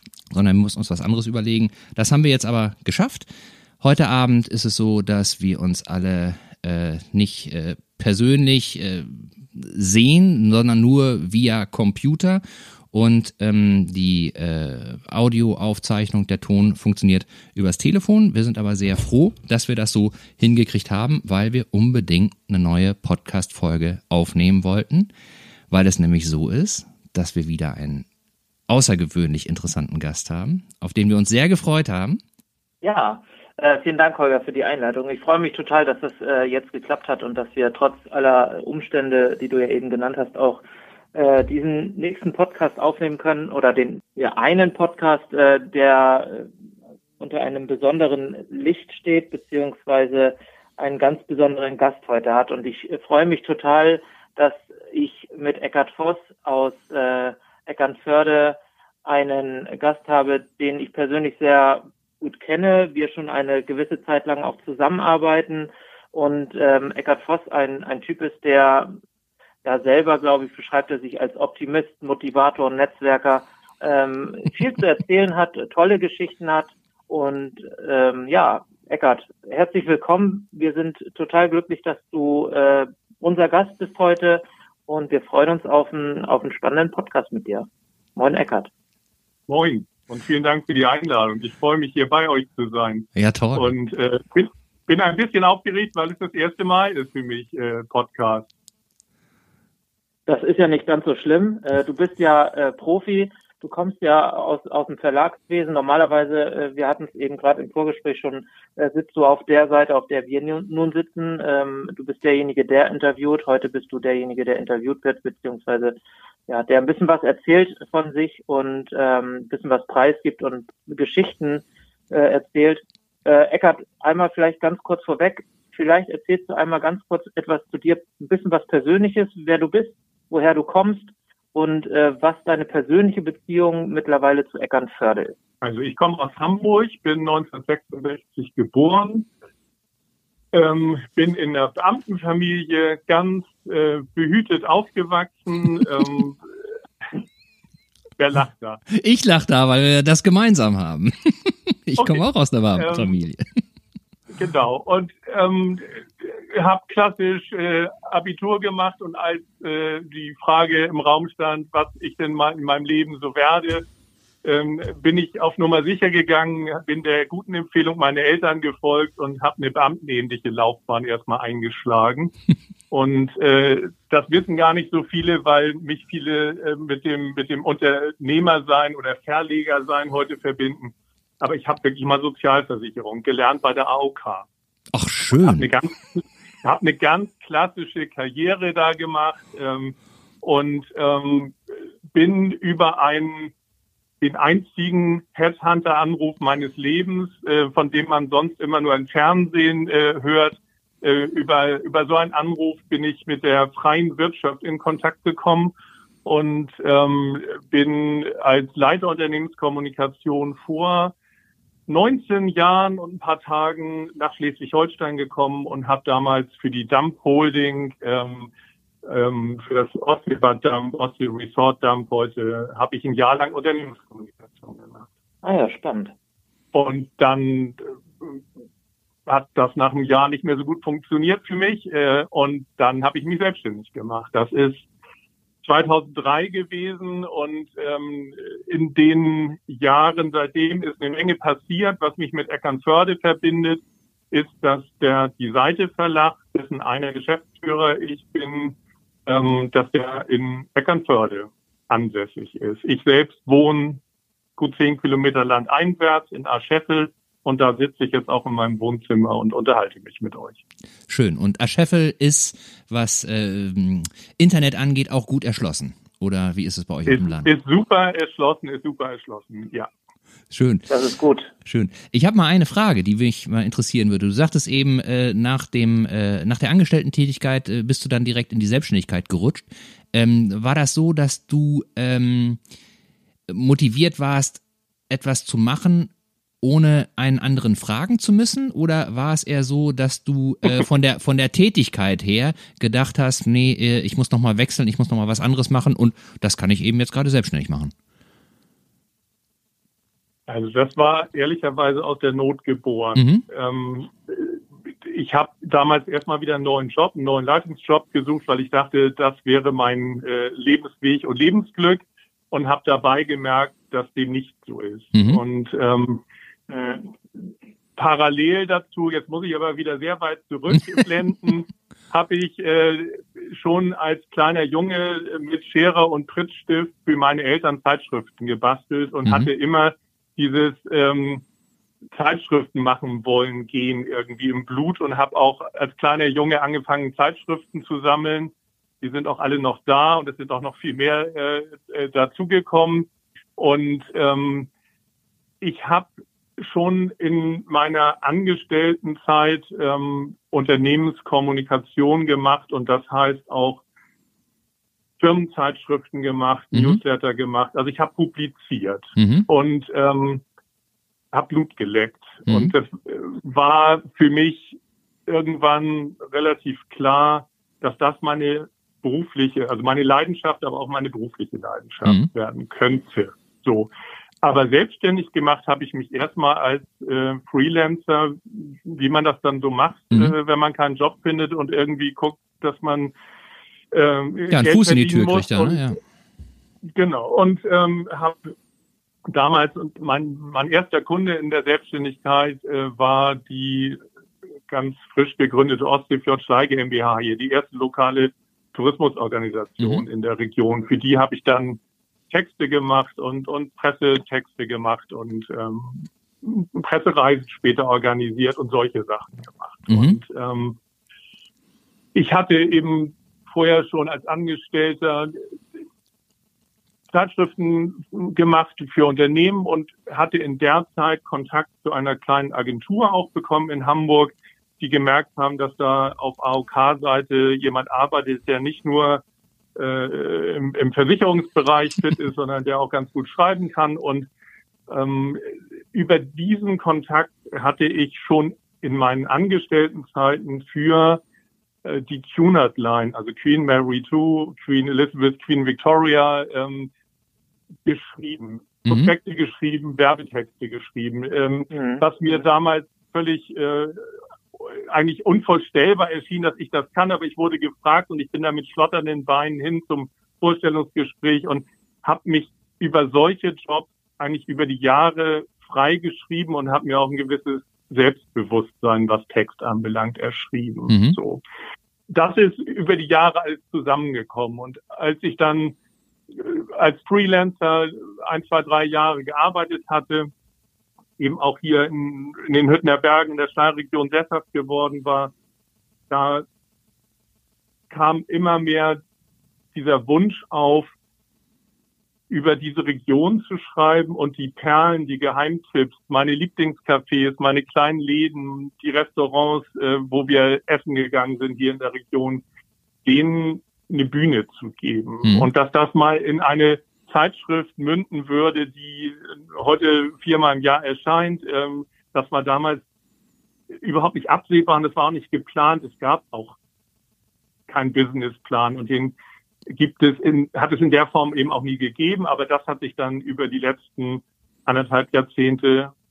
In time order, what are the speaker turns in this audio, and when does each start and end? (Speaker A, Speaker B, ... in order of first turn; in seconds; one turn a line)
Speaker A: 0.3-3.3
Speaker A: 3.8-25.1
Speaker A: 25.7-28.1
Speaker A: 28.7-32.2
Speaker B: 32.8-46.5
Speaker B: 47.2-69.0
Speaker B: 69.6-88.7
Speaker C: 89.5-98.5
Speaker A: 93.2-93.7
Speaker B: 100.3-116.0
Speaker B: 116.5-135.4
Speaker C: 135.6-139.3
Speaker C: 140.5-146.4
Speaker C: 148.2-148.8
Speaker A: 148.9-153.4
Speaker C: 152.0-153.2
Speaker C: 154.3-163.9
Speaker C: 164.4-172.3
Speaker C: 172.9-184.5
Speaker A: 184.9-185.7
Speaker C: 185.4-191.6
Speaker C: 192.1-193.5
Speaker C: 194.2-205.7
Speaker C: 206.2-211.1
Speaker C: 211.9-218.5
Speaker C: 219.0-225.1
Speaker B: 225.4-226.1
Speaker C: 226.7-228.4
Speaker C: 229.3-234.9
Speaker C: 235.6-254.0
Speaker C: 254.6-260.6
Speaker A: 261.1-267.5
Speaker C: 267.1-269.9
Speaker A: 270.5-270.9
Speaker B: 270.9-271.5
Speaker A: 271.6-282.6
Speaker A: 283.5-286.1
Speaker A: 286.6-297.9
Speaker C: 300.5-317.4
Speaker A: 303.1-303.4
Speaker A: 315.1-315.4
Speaker C: 318.0-331.4
Speaker A: 329.2-329.5
Speaker C: 332.1-344.7
Speaker C: 345.6-353.8
Speaker C: 355.2-360.4
Speaker A: 356.7-357.0
Speaker A: 359.2-359.5
Speaker C: 361.3-373.9
Speaker A: 362.5-362.7
Speaker C: 374.4-383.1
Speaker C: 383.9-385.9
Speaker A: 384.5-386.0
Speaker C: 386.8-388.5
Speaker C: 389.3-394.0
Speaker C: 394.7-410.8
Speaker A: 409.9-410.2
Speaker C: 412.1-415.5
Speaker C: 417.1-429.2
Speaker C: 429.8-434.3
Speaker C: 434.9-441.2
Speaker C: 441.8-446.9
Speaker C: 447.9-471.4
Speaker A: 448.9-449.1
Speaker B: 451.7-452.0
Speaker A: 470.9-471.2
Speaker C: 472.1-475.8
Speaker C: 476.3-480.3
Speaker C: 481.2-485.3
Speaker C: 486.1-486.5
Speaker C: 487.9-489.0
Speaker C: 489.7-490.9
Speaker C: 492.3-502.4
Speaker C: 503.1-512.8
Speaker A: 505.2-505.5
Speaker C: 513.7-516.6
Speaker C: 517.7-519.1
Speaker C: 519.7-525.9